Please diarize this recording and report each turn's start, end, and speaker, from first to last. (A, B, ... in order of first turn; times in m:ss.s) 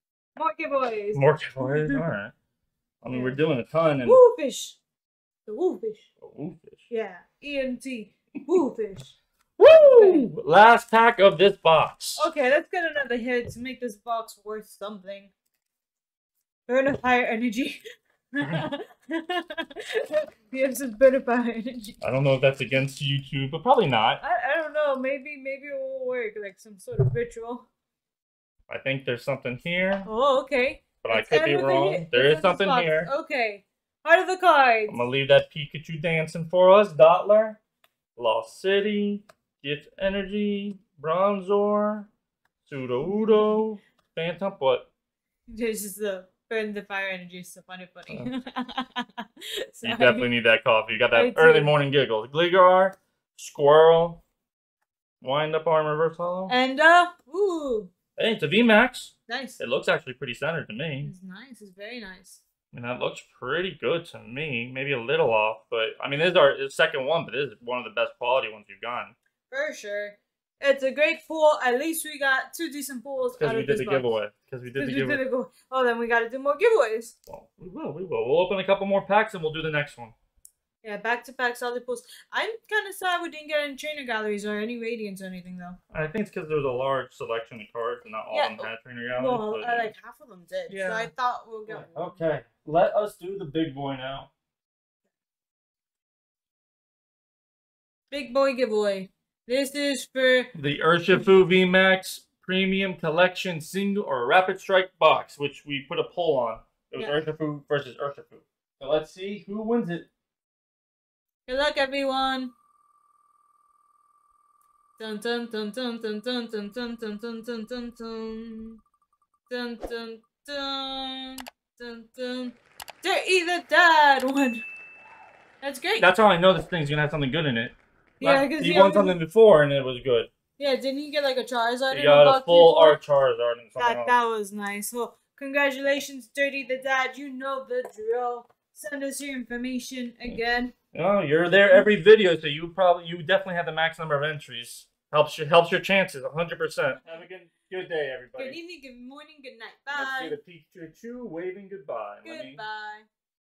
0:00.4-0:02.0 A
0:01.1-0:02.3 B
0:03.0-0:04.2 B
0:03.1-0:03.4 A
0:04.0-0:04.8 A
0:05.4-0:06.1 A
0:06.2-0:06.9 B
0:06.9-0:09.2 A
0:09.6-0:12.3 B
0:09.7-0:10.2 A
0:12.2-0:15.3 A
0:16.7-0:17.8 A
0:18.3-0:22.0 A
0:22.0-0:24.2 B
0:24.2-0:27.7 A
0:28.7-0:30.1 B
0:30.0-0:35.0 A
0:31.0-0:33.1 B
0:34.9-0:37.6 B
0:38.2-0:42.1 B
0:42.6-0:44.9 B
0:43.2-0:43.4 A
0:45.5-0:50.3 A
0:49.8-0:54.2 B
0:51.1-0:51.7 A
0:55.2-0:56.5 B
0:56.5-0:57.9 A
0:58.2-1:01.1 B
0:59.3-0:59.6 A
1:01.0-1:02.4 A
1:02.7-1:09.1 B
1:09.5-1:14.1 A
1:13.4-1:15.2 B
1:14.8-1:17.1 A
1:17.3-1:20.1 B
1:20.8-1:25.8 A
1:25.9-1:29.9 B
1:28.3-1:32.2 A
1:30.7-1:31.1 B
1:31.7-1:34.3 B
1:38.1-1:40.5 A
1:40.5-1:50.1 B
1:51.5-1:52.5 A
1:55.0-1:58.8 A
1:59.5-2:04.6 A
2:05.6-2:06.1 A
2:06.0-2:10.3 B
2:08.2-2:09.2 A
2:10.6-2:13.0 A
2:11.9-2:14.1 B
2:13.8-2:20.7 A
2:20.9-2:28.6 B
2:28.4-2:30.4 A
2:29.9-2:32.6 B
2:32.2-2:33.1 A